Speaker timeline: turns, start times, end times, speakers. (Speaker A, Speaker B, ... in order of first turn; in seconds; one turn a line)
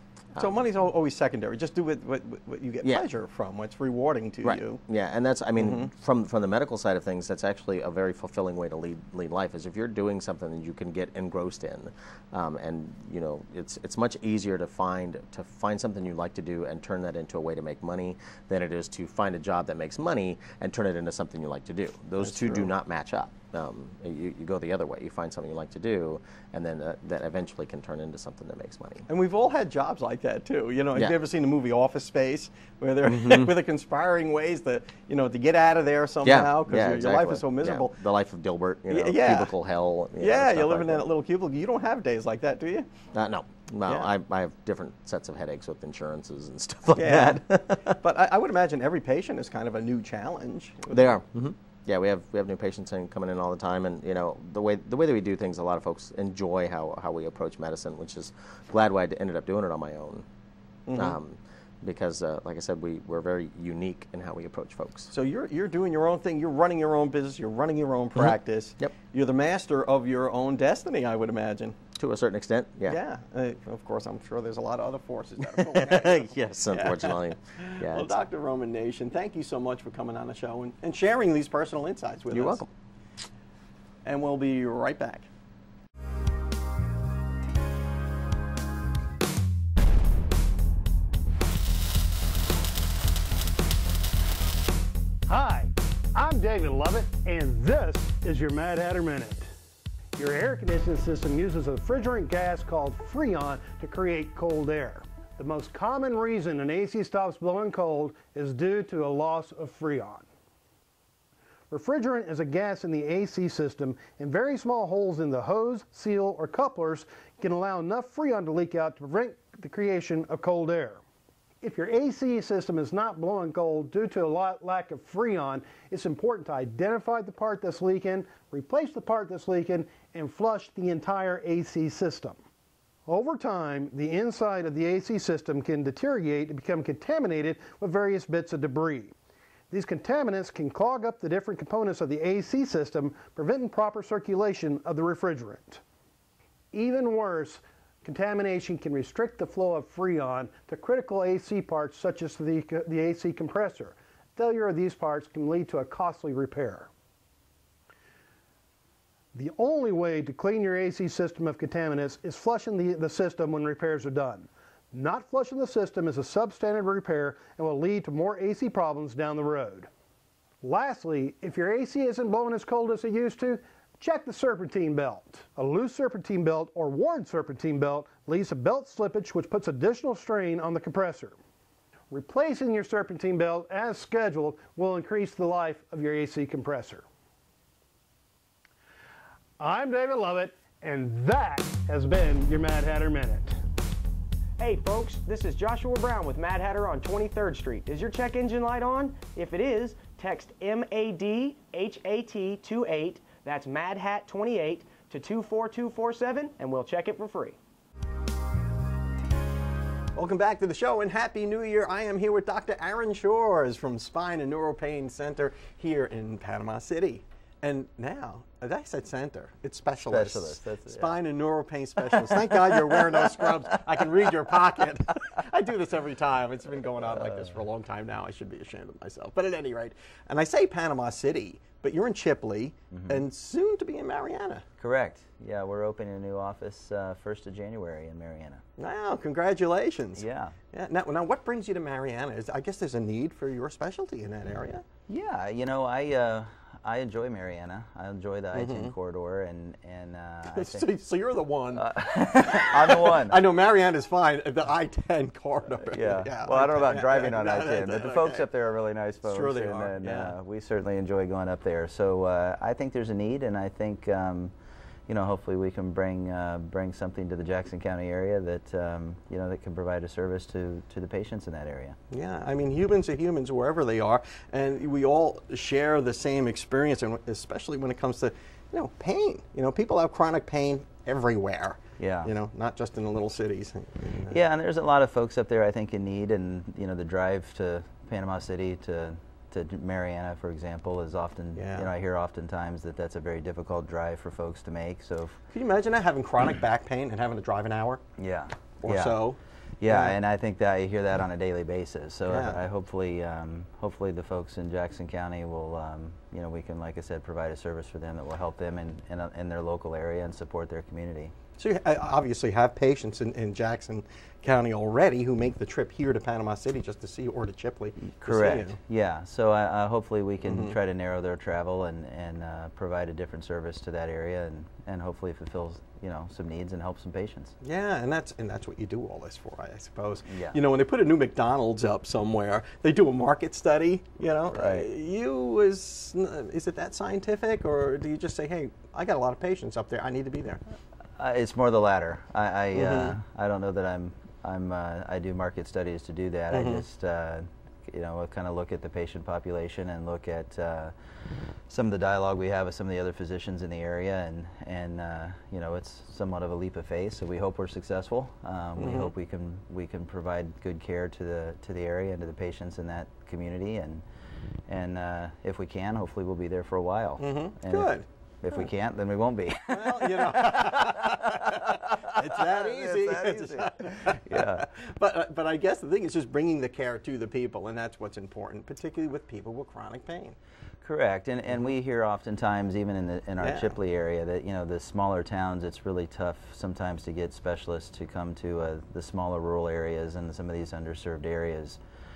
Speaker A: 0.3-4.8
Speaker B: 0.3-0.6
Speaker B: 4.4-29.1
Speaker A: 5.6-5.9
Speaker A: 22.2-22.7
Speaker A: 29.1-38.0
Speaker B: 30.9-31.2
Speaker B: 33.0-33.5
Speaker B: 36.2-41.1
Speaker A: 38.9-39.5
Speaker A: 40.2-42.9
Speaker B: 43.1-48.0
Speaker A: 43.8-44.1
Speaker A: 46.9-51.2
Speaker B: 50.9-60.2
Speaker A: 60.9-61.2
Speaker B: 60.9-65.1
Speaker A: 65.1-71.7
Speaker B: 68.2-68.9
Speaker B: 72.0-73.0
Speaker A: 72.8-82.6
Speaker B: 75.5-78.2
Speaker B: 82.3-82.7
Speaker A: 84.0-85.3
Speaker C: 95.3-99.5
Speaker C: 100.2-110.2
Speaker C: 111.7-121.0
Speaker C: 121.6-132.4
Speaker C: 133.1-139.1
Speaker C: 139.7-145.8
Speaker C: 146.7-156.9
Speaker C: 159.3-169.9
Speaker C: 170.6-181.3
Speaker C: 182.1-187.0
Speaker C: 189.6-193.6
Speaker D: 194.6-207.6
Speaker A: 210.1-234.6
Speaker E: 220.1-221.2
Speaker E: 222.2-223.0
Speaker E: 227.2-227.5
Speaker E: 232.9-233.2
Speaker E: 234.8-238.6
Speaker A: 238.8-244.8
Speaker E: 240.2-240.5
Speaker E: 245.1-250.9
Speaker A: 248.5-248.9
Speaker A: 250.5-258.4
Speaker E: 251.7-253.4
Speaker E: 255.8-264.5
Speaker A: 259.2-260.3
Speaker E: 265.1-272.0
Speaker A: 272.1-284.4
Speaker E: 282.0-282.3
Speaker E: 284.3-295.4
Speaker A: 291.5-291.9
Speaker A: 295.5-298.0
Speaker E: 298.2-299.2
Speaker A: 298.8-300.1
Speaker E: 299.8-311.3
Speaker A: 302.3-302.6
Speaker A: 311.6-318.8
Speaker E: 318.0-327.5
Speaker A: 320.4-320.7
Speaker A: 327.6-340.6
Speaker E: 330.2-330.6
Speaker E: 334.5-334.9
Speaker E: 341.2-350.9
Speaker A: 342.7-343.2
Speaker A: 346.5-346.8
Speaker E: 351.7-364.0
Speaker A: 358.8-359.1
Speaker E: 364.7-371.7
Speaker A: 367.2-368.0
Speaker A: 369.7-380.4
Speaker E: 372.4-374.7
Speaker E: 380.8-391.8
Speaker A: 383.4-383.8